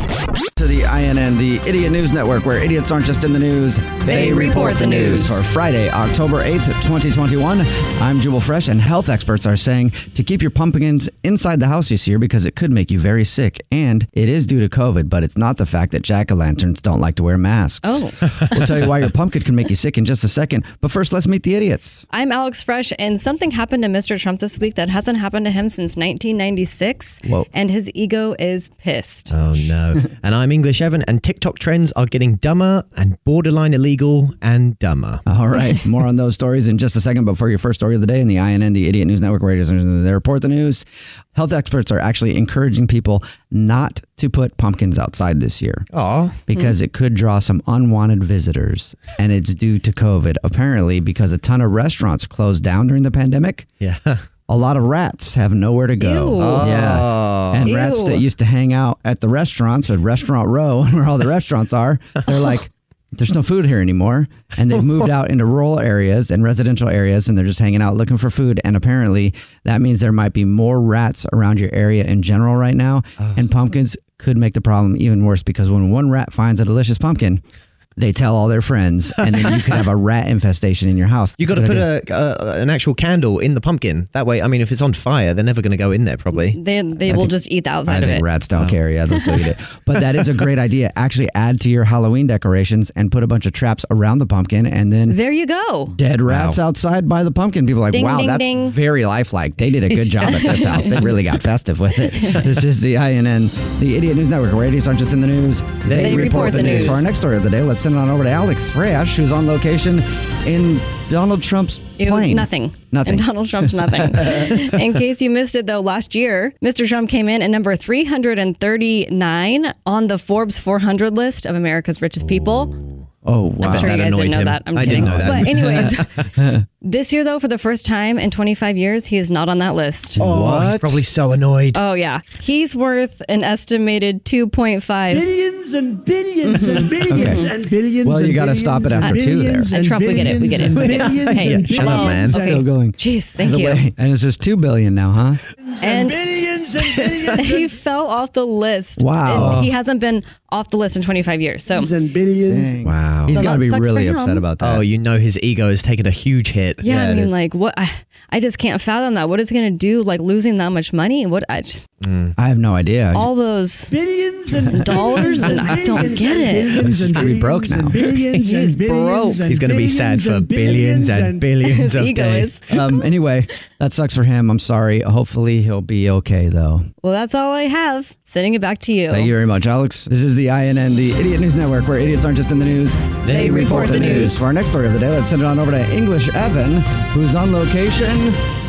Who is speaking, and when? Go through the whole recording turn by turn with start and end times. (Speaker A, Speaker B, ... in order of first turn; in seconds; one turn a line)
Speaker A: 0.6-22.0
Speaker B: 4.0-5.4
Speaker C: 4.1-4.4
Speaker B: 17.8-18.8
Speaker B: 22.1-29.3
Speaker C: 29.3-35.2
Speaker A: 35.3-45.9
Speaker C: 45.9-46.4
Speaker A: 46.5-53.7
Speaker C: 53.8-54.2
Speaker A: 54.5-77.4
Speaker B: 56.0-56.8
Speaker C: 56.4-57.7
Speaker B: 57.6-58.2
Speaker A: 78.0-81.9
Speaker C: 81.4-86.6
Speaker B: 86.4-88.2
Speaker A: 87.1-87.3
Speaker A: 87.9-95.2
Speaker B: 95.1-96.0
Speaker A: 95.9-114.6
Speaker C: 96.3-96.6
Speaker B: 97.9-98.8
Speaker B: 100.2-101.2
Speaker B: 102.2-102.4
Speaker C: 105.9-107.0
Speaker B: 105.9-107.1
Speaker B: 112.0-122.8
Speaker A: 123.2-124.0
Speaker C: 123.6-126.1
Speaker B: 123.6-126.1
Speaker A: 124.8-126.6
Speaker B: 126.8-130.2
Speaker C: 130.2-131.8
Speaker A: 130.2-131.0
Speaker B: 131.7-135.3
Speaker D: 135.1-142.6
Speaker B: 136.4-137.5
Speaker A: 137.1-137.5
Speaker A: 138.0-139.7
Speaker B: 139.0-143.8
Speaker C: 140.7-142.4
Speaker A: 142.3-145.4
Speaker D: 145.7-147.7
Speaker B: 145.8-152.0
Speaker A: 149.0-149.7
Speaker C: 149.3-149.7
Speaker D: 151.7-152.8
Speaker A: 152.5-154.8
Speaker C: 152.8-153.4
Speaker B: 153.3-154.4
Speaker C: 154.6-157.3
Speaker B: 156.8-161.8
Speaker C: 162.0-162.3
Speaker A: 162.4-163.3
Speaker B: 163.1-163.9
Speaker D: 163.9-171.5
Speaker B: 164.7-167.2
Speaker C: 165.2-165.9
Speaker A: 166.8-168.0
Speaker C: 167.0-167.3
Speaker C: 168.0-168.7
Speaker B: 168.4-169.5
Speaker C: 169.4-172.6
Speaker B: 171.6-173.0
Speaker A: 172.7-176.9
Speaker B: 177.0-179.3
Speaker A: 179.1-188.4
Speaker C: 183.3-184.4
Speaker B: 183.3-184.4